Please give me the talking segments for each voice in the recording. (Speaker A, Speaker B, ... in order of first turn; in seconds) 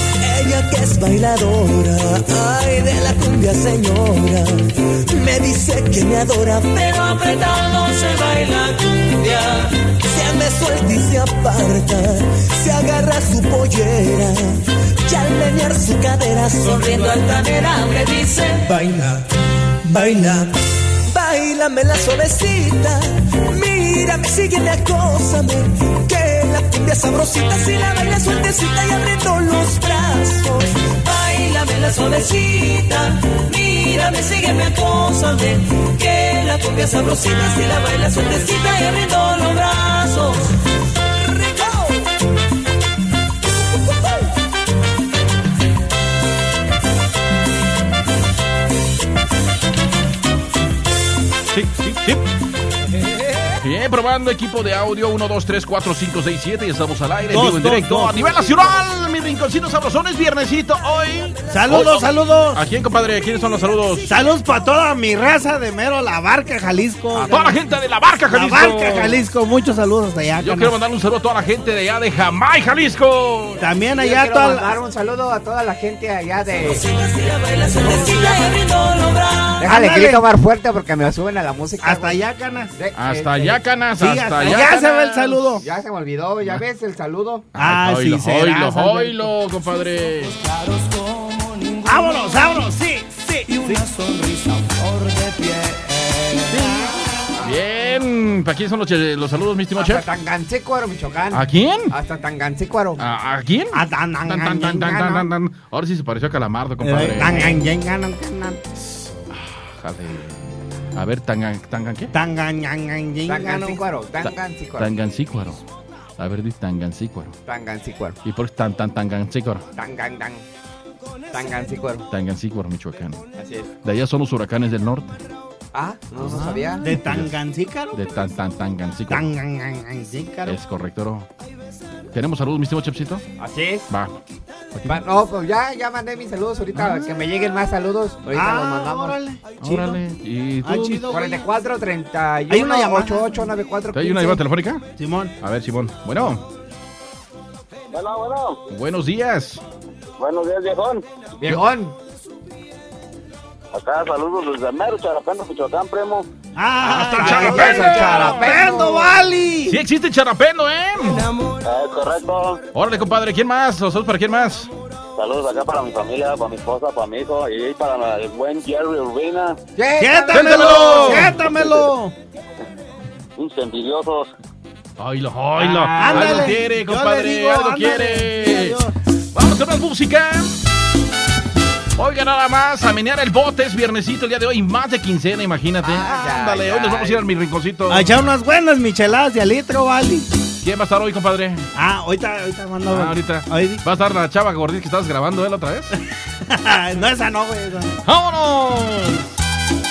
Speaker A: 0.2-6.8, 10.0-17.4, 18.7-19.3, 19.8-30.9, 41.3-42.0
Speaker B: 6.7-9.7, 16.6-18.7, 31.0-40.5, 76.7-79.7
Speaker C: 51.5-52.2, 53.5-64.1, 67.2-69.2, 70.4-73.6, 83.0-84.9, 87.5-90.4, 96.5-96.8, 97.4-100.1, 101.3-101.9, 103.0-107.6, 109.3-110.4, 111.0-112.1, 114.2-115.6, 116.2-117.4, 118.2-119.6, 122.1-123.2, 123.8-125.2, 126.2-127.3, 127.9-129.3, 130.5-131.3, 132.1-133.2, 133.9-134.2, 134.7-135.0, 136.8-137.2, 139.6-141.1, 143.9-144.8, 145.4-146.4, 148.7-149.6, 156.8-158.8, 159.7-161.3, 162.7-164.7, 170.3-171.4, 175.0-178.8, 179.3-180.6, 182.0-188.1, 190.6-191.7, 192.9-196.0, 198.1-199.3
Speaker D: 57.3-58.7, 61.5-62.6, 64.1-67.6, 68.3-70.7, 73.6-74.8, 79.7-80.2, 81.8-82.8, 84.0-85.6, 87.6-89.3, 91.8-93.8, 96.5-97.3, 103.7-105.3, 106.8-108.6, 112.1-113.8, 126.8-128.0, 129.1-130.6, 138.3-140.0, 140.6-141.5, 142.5-143.4, 145.0-145.3, 156.6-159.8, 170.0-172.1, 175.6-178.9, 187.9-190.3, 191.8-193.8, 196.5-198.0
Speaker E: 74.0-76.8, 77.8-78.5, 79.6-82.2, 82.7-83.6, 84.5-87.5, 99.8-103.0, 113.3-114.9, 117.5-118.2, 119.8-120.5, 121.3-122.1, 123.4-123.7, 125.7-126.8, 133.4-133.9, 134.9-139.2, 141.1-144.4, 151.4-152.0, 157.0-159.2, 169.8-171.5, 185.8-187.3
Speaker F: 147.9-148.6, 150.2-151.0, 153.7-156.3, 161.6-162.6, 165.2-169.6, 173.4-174.3